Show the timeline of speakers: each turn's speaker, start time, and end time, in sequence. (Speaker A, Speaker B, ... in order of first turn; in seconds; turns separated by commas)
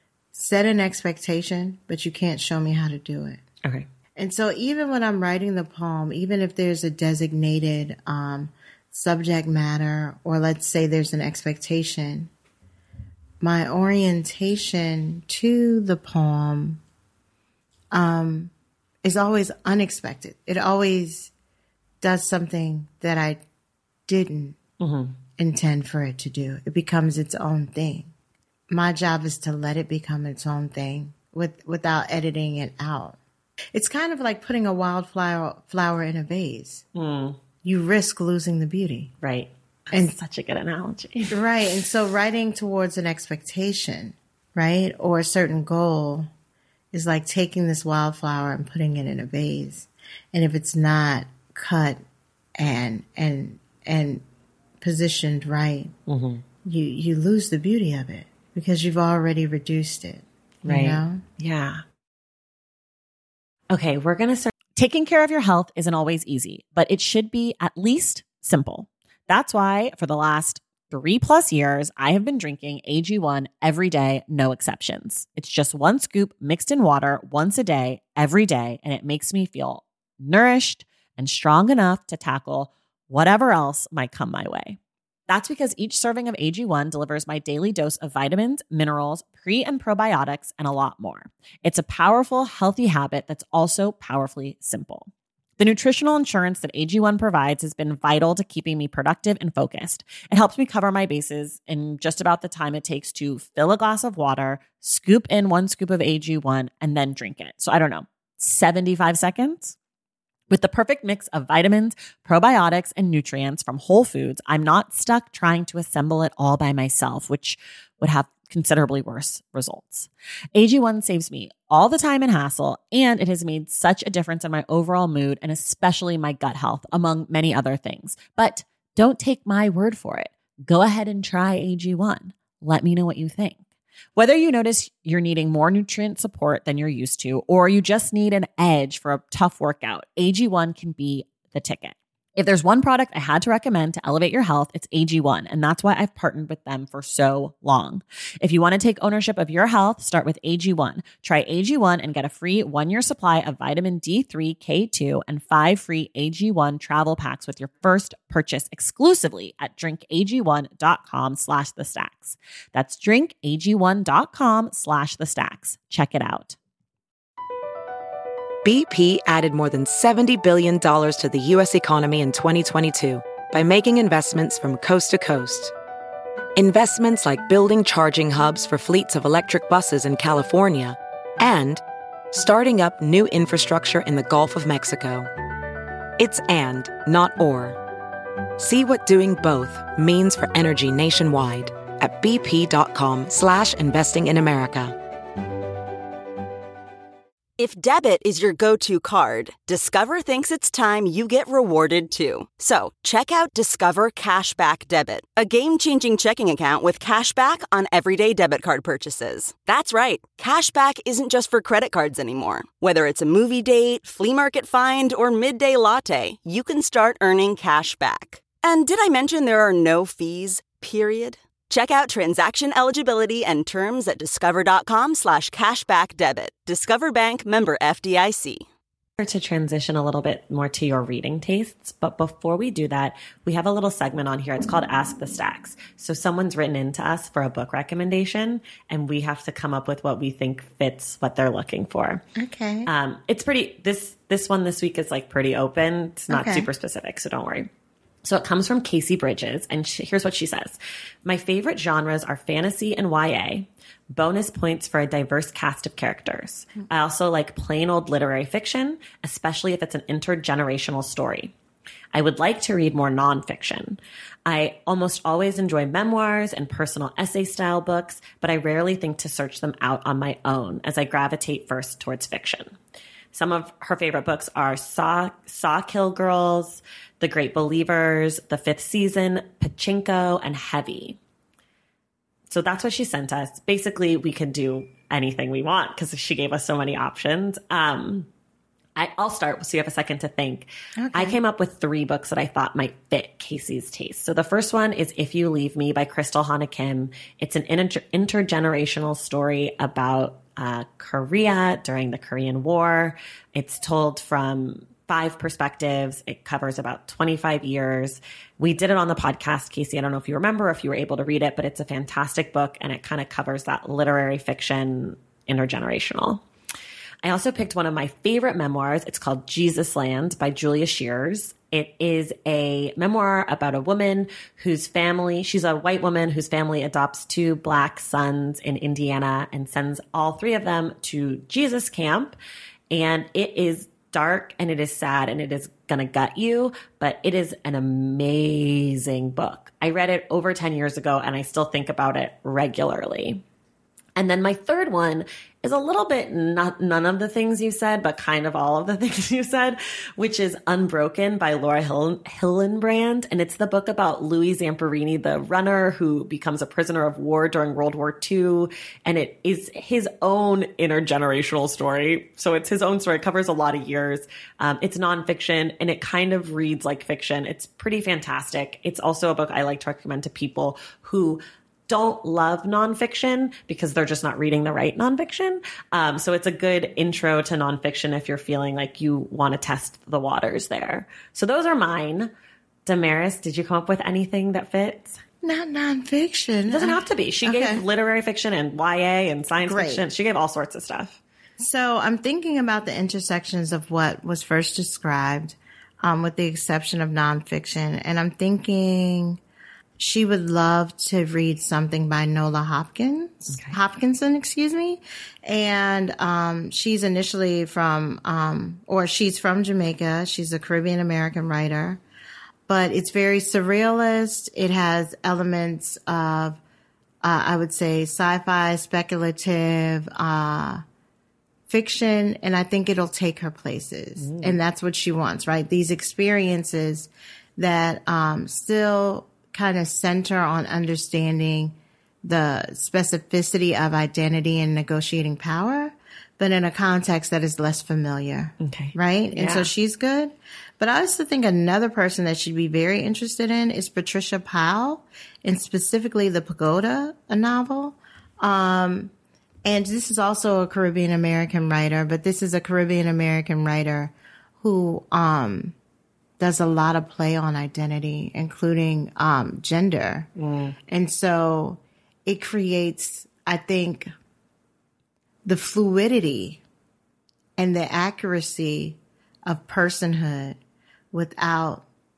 Speaker A: 0.3-3.4, Speaker A: 4.2-12.3, Speaker A: 13.4-16.8, Speaker A: 17.9-18.5, Speaker A: 19.0-21.3, Speaker A: 22.0-23.4, Speaker A: 24.1-24.6, Speaker B: 24.8-25.2, Speaker A: 25.4-28.1, Speaker A: 28.7-33.2, Speaker A: 33.7-36.8, Speaker B: 36.9-37.4, Speaker A: 37.6-39.1, Speaker B: 39.2-41.4, Speaker A: 41.3-46.3, Speaker A: 46.9-52.0, Speaker A: 52.6-54.2, Speaker A: 54.8-55.9, Speaker B: 56.1-56.4, Speaker A: 56.6-61.2, Speaker B: 60.6-61.8, Speaker B: 63.7-109.8, Speaker B: 110.5-133.6, Speaker B: 134.2-166.6, Speaker C: 168.6-175.7, Speaker C: 176.6-181.8, Speaker C: 182.3-185.3, Speaker C: 186.2-187.8, Speaker C: 188.6-194.9, Speaker D: 197.6-228.7, Speaker B: 229.2-242.2, Speaker A: 242.3-242.9, Speaker B: 242.8-247.7, Speaker A: 246.3-246.7, Speaker B: 248.2-261.5, Speaker B: 262.1-272.8, Speaker B: 273.3-281.2, Speaker B: 282.5-288.3, Speaker B: 288.9-316.4, Speaker A: 291.0-291.4, Speaker B: 317.2-332.4, Speaker B: 332.9-343.4, Speaker B: 344.2-382.3, Speaker B: 382.9-385.2, Speaker A: 385.4-387.8, Speaker B: 386.7-391.2, Speaker A: 389.6-390.0, Speaker A: 391.6-399.4, Speaker A: 400.0-412.0, Speaker A: 412.7-416.6, Speaker A: 417.2-420.8, Speaker A: 421.7-449.1, Speaker B: 424.2-424.6, Speaker B: 438.6-439.7, Speaker A: 449.6-455.7, Speaker A: 456.4-460.3, Speaker B: 460.4-460.8, Speaker A: 460.9-464.1, Speaker A: 465.4-466.6, Speaker A: 467.6-470.6, Speaker A: 471.1-471.8